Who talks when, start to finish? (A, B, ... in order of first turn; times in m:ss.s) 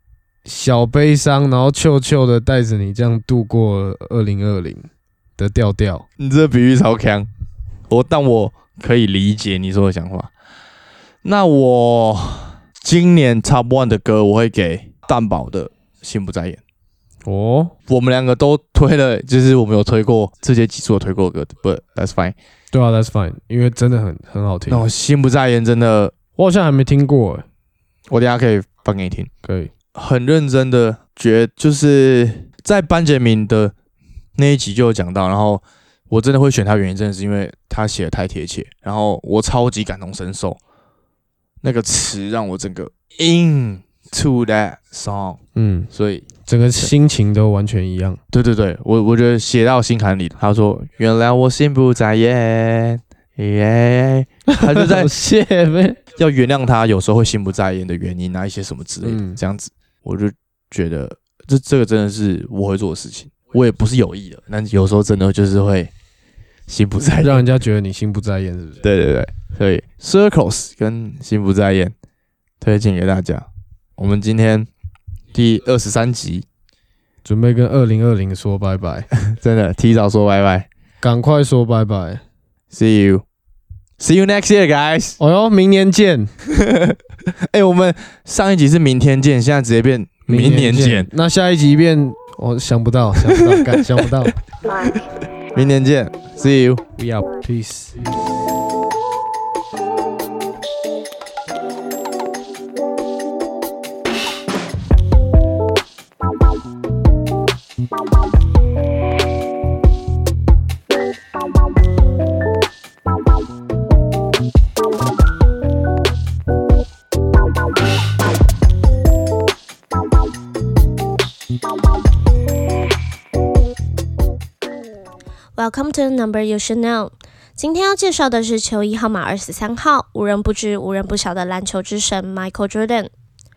0:00.4-0:06.0 A
0:06.2-0:07.3 B
0:07.9-0:10.3 B
0:11.2-0:16.6 B
0:17.3-0:17.7 A
0:17.9-0:22.4 B
0:22.7-0:24.8 A
0:24.7-0:26.1 B
0:26.4-0:27.4 A
0:28.1-0:29.3 B
0:29.4-0:29.7 A
0:29.9-0:33.7 B
0:34.4-0:40.6 B
0:41.6-0:45.4 B
0:45.6-0:45.9 A
0:45.9-0:46.3 B
0:46.4-0:48.2 A
0:48.3-0:55.1 B
0:54.5-0:56.0 A
0:56.2-1:05.9 B
0:59.0-0:59.4 A
1:06.7-1:07.4 B
1:07.2-1:08.8 A
1:08.8-1:11.9 B
1:12.6-1:14.7 B
1:15.3-1:16.4 B
1:17.2-1:19.1 A
1:19.2-1:20.7 B
1:21.0-1:22.2 A
1:22.7-1:23.2 B
1:24.0-1:25.2 B
1:25.2-1:26.3 A
1:26.5-1:27.0 B
1:27.5-1:31.1 B
1:30.3-1:34.4 A
1:33.3-1:34.1 B
1:35.5-1:36.8 B
1:37.0-1:38.0 A
2:05.6-2:13.1 C